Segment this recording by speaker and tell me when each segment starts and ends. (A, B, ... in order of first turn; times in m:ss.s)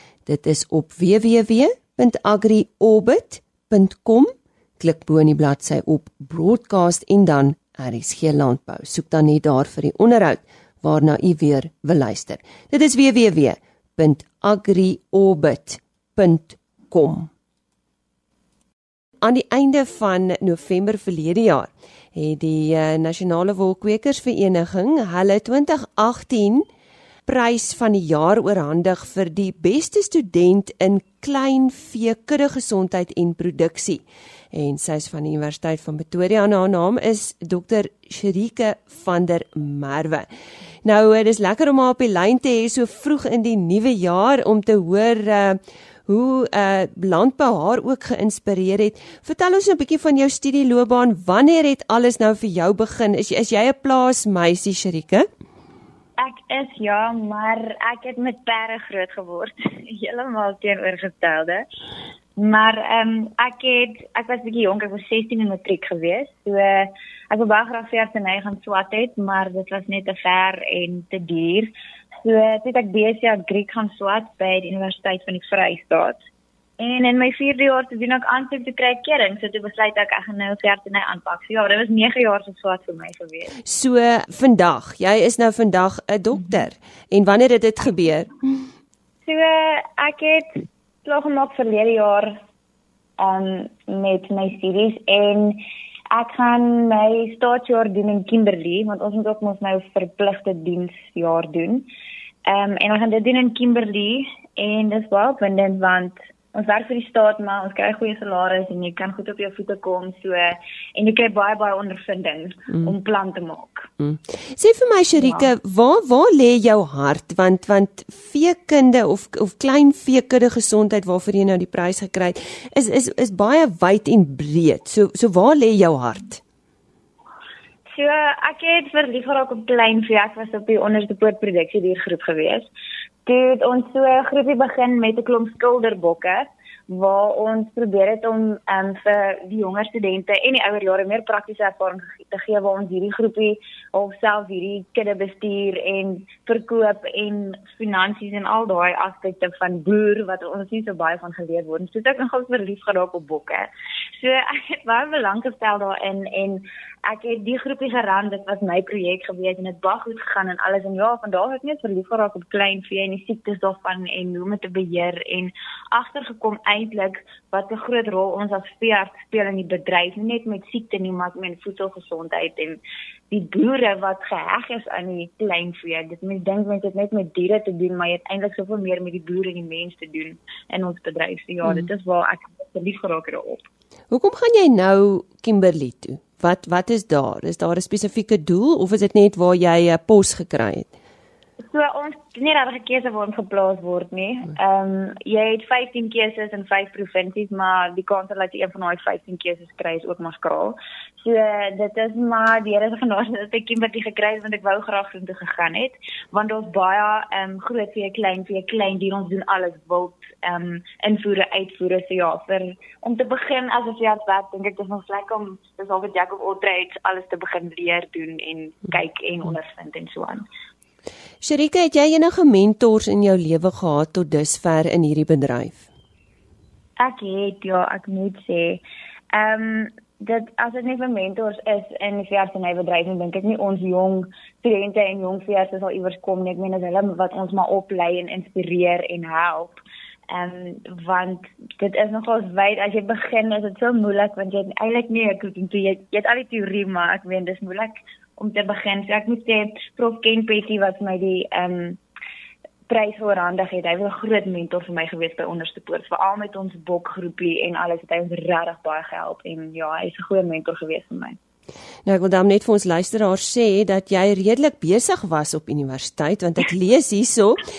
0:00.3-0:17.3 A
0:19.2-0:26.7 A
0:27.3-0:40.3 A
0:40.8-0:55.3 A
0:56.2-1:01.6 B
1:02.4-1:16.2 B
1:16.8-1:23.5 B
1:23.6-1:28.3 A
1:29.2-1:32.4 B
1:33.2-1:41.9 B
1:42.5-1:53.9 B
1:54.1-2:06.4 A
1:55.2-1:55.5 B
2:07.9-2:12.7 B
2:13.2-2:52.8 B
2:53.3-3:03.6 B
3:04.1-3:10.9 A
3:11.6-3:40.4 B
3:41.4-3:45.9 A
3:47.0-3:48.8 B
3:49.3-4:12.0 B
4:12.9-4:21.4 B
4:22.1-4:27.6 A